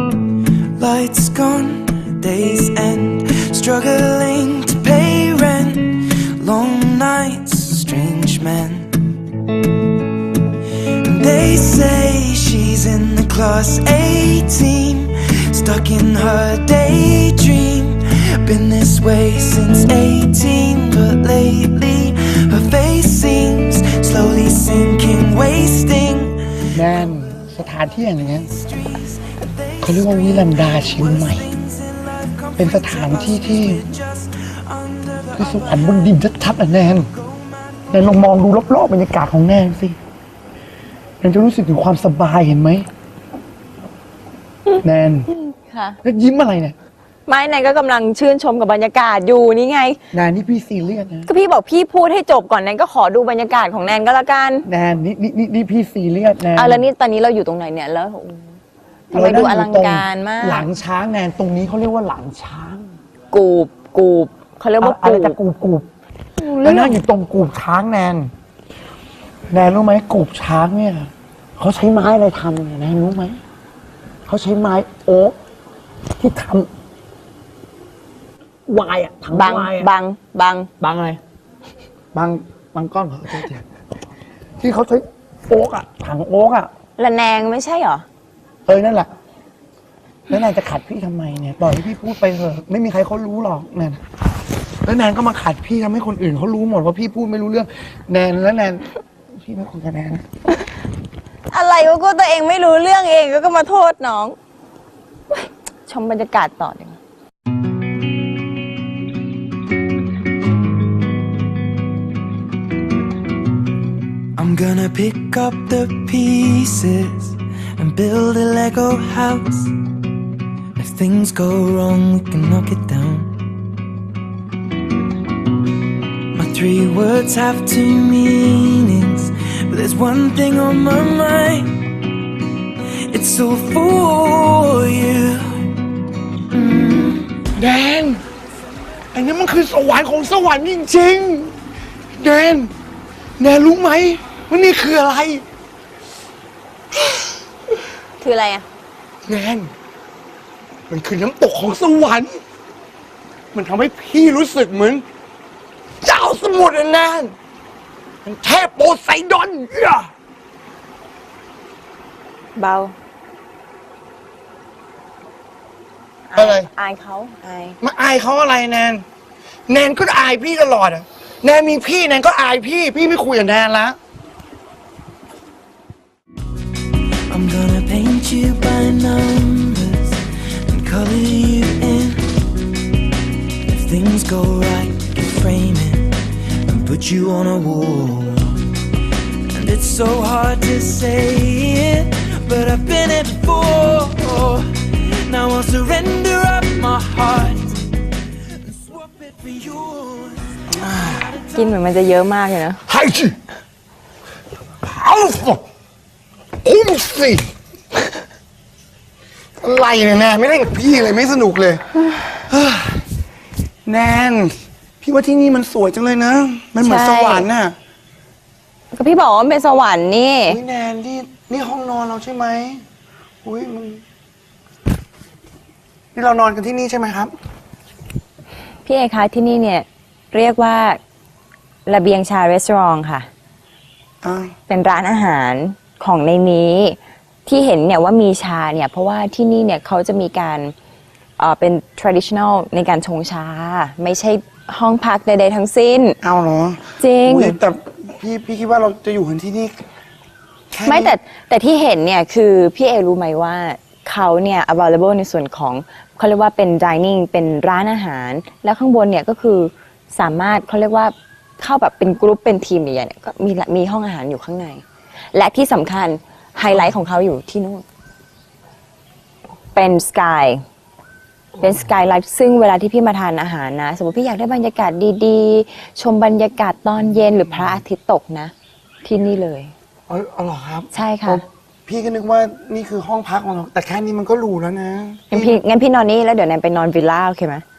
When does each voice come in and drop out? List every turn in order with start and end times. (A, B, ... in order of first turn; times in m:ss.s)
0:00.7-0:09.1 A
0:11.0-0:27.2 A
0:26.7-0:28.5 B
0:28.4-0:36.4 A
0:29.8-0:31.5 B
0:32.6-0:33.8 B
0:35.3-0:37.1 B
0:37.0-0:38.2 A
0:37.9-0:40.0 B
0:41.2-0:42.9 B
0:44.7-0:45.3 B
0:45.3-0:46.0 C
0:46.0-0:46.7 B
0:47.3-0:50.0 C
0:50.1-0:51.3 B
0:51.2-0:54.7 C
0:54.6-0:56.9 B
0:56.5-0:58.6 C
0:59.1-1:02.9 B
0:59.1-1:00.7 C
1:03.3-1:05.4 C
1:04.8-1:05.9 B
1:06.4-1:07.0 C
1:06.6-1:08.3 B
1:09.5-1:13.4 B
1:14.3-1:15.4 B
1:16.2-1:16.7 B
1:18.7-1:19.9 B
1:19.3-1:20.7 C
1:20.8-1:21.2 B
1:22.1-1:23.6 B
1:24.6-1:26.7 B
1:27.0-1:28.0 C
1:28.7-1:29.1 B
1:30.3-1:34.0 B
1:34.8-1:40.2 B
1:41.5-1:44.4 C
1:45.3-1:47.0 C
1:54.4-1:59.8 A
2:00.8-2:03.4 A
2:06.3-2:11.8 A
2:13.1-2:15.8 A
2:16.5-2:17.4 A
2:17.5-2:18.2 B
2:19.1-2:21.5 B
2:22.2-2:22.7 B
2:23.4-2:25.4 B
2:28.2-2:28.7 C
2:29.2-2:29.7 B
2:30.9-2:32.4 B
2:33.5-2:35.0 B
2:36.0-2:37.3 B
2:38.2-2:40.1 B
2:42.5-2:43.0 C
2:46.3-2:47.8 C
2:46.4-2:46.7 B
2:47.8-2:49.0 B
2:49.7-2:54.0 B
2:57.3-3:02.4 A
3:03.7-3:08.7 A
3:09.5-3:21.8 A
3:20.7-3:21.3 B
3:21.5-3:22.8 C
3:22.9-3:23.4 B
3:24.8-3:25.6 B
3:26.6-3:27.5 B
3:29.6-3:31.8 B
3:32.5-3:33.0 B
3:33.8-3:37.7 B
3:36.8-3:37.5 C
3:38.9-3:40.6 C
3:40.5-3:42.8 B
3:43.4-3:44.0 B
3:46.1-3:47.3 B
3:48.8-3:51.0 C
3:51.8-3:53.3 C
3:54.2-3:54.5 B
3:54.7-4:00.7 C
4:01.4-4:06.2 C
4:06.2-4:09.8 B
4:07.0-4:07.6 C
4:10.7-4:11.1 B
4:10.8-4:27.8 C
4:29.7-4:30.6 C
4:31.5-4:31.8 B
4:31.6-4:39.7 C
4:37.2-4:37.8 B
4:40.1-4:45.6 B
4:40.9-4:41.4 C
4:45.3-4:47.6 C